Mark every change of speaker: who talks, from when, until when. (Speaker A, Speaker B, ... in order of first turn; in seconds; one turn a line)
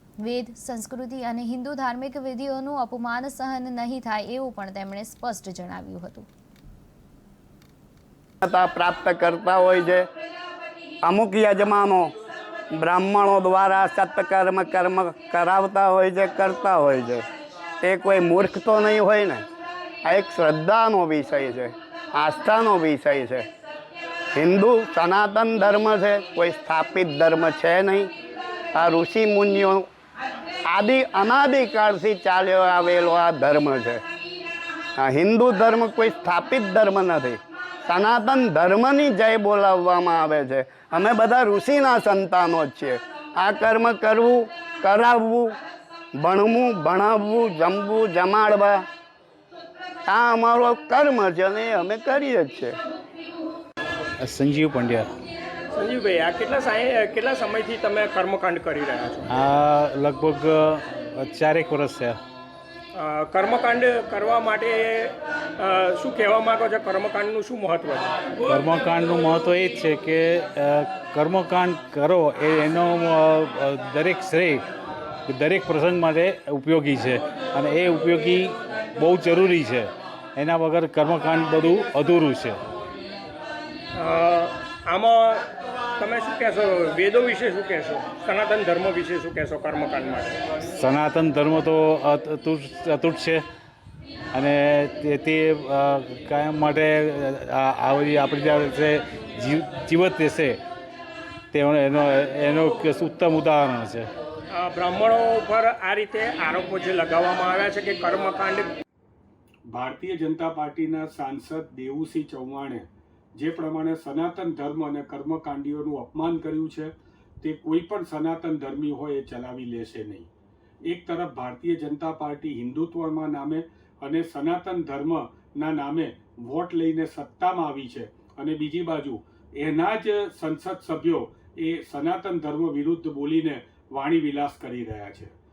Speaker A: 0.2-6.3
Speaker B: 8.4-10.1
Speaker B: 11.0-12.1
Speaker B: 12.7-17.2
Speaker B: 17.8-19.4
Speaker B: 20.0-23.4
Speaker B: 24.3-28.1
Speaker B: 28.7-29.8
Speaker B: 30.7-34.0
Speaker B: 35.0-45.5
Speaker B: 46.2-48.8
Speaker B: 50.1-52.7
Speaker C: 54.2-55.1
Speaker D: 55.7-59.2
Speaker C: 59.2-62.2
Speaker D: 62.9-68.1
Speaker C: 68.5-74.6
Speaker C: 75.3-82.6
Speaker D: 83.9-85.4
Speaker D: 86.0-90.4
Speaker C: 90.7-93.4
Speaker C: 94.3-100.6
Speaker C: 101.5-104.1
Speaker E: 104.5-108.7
Speaker D: 104.8-105.7
Speaker E: 109.7-120.3
Speaker E: 120.9-135.3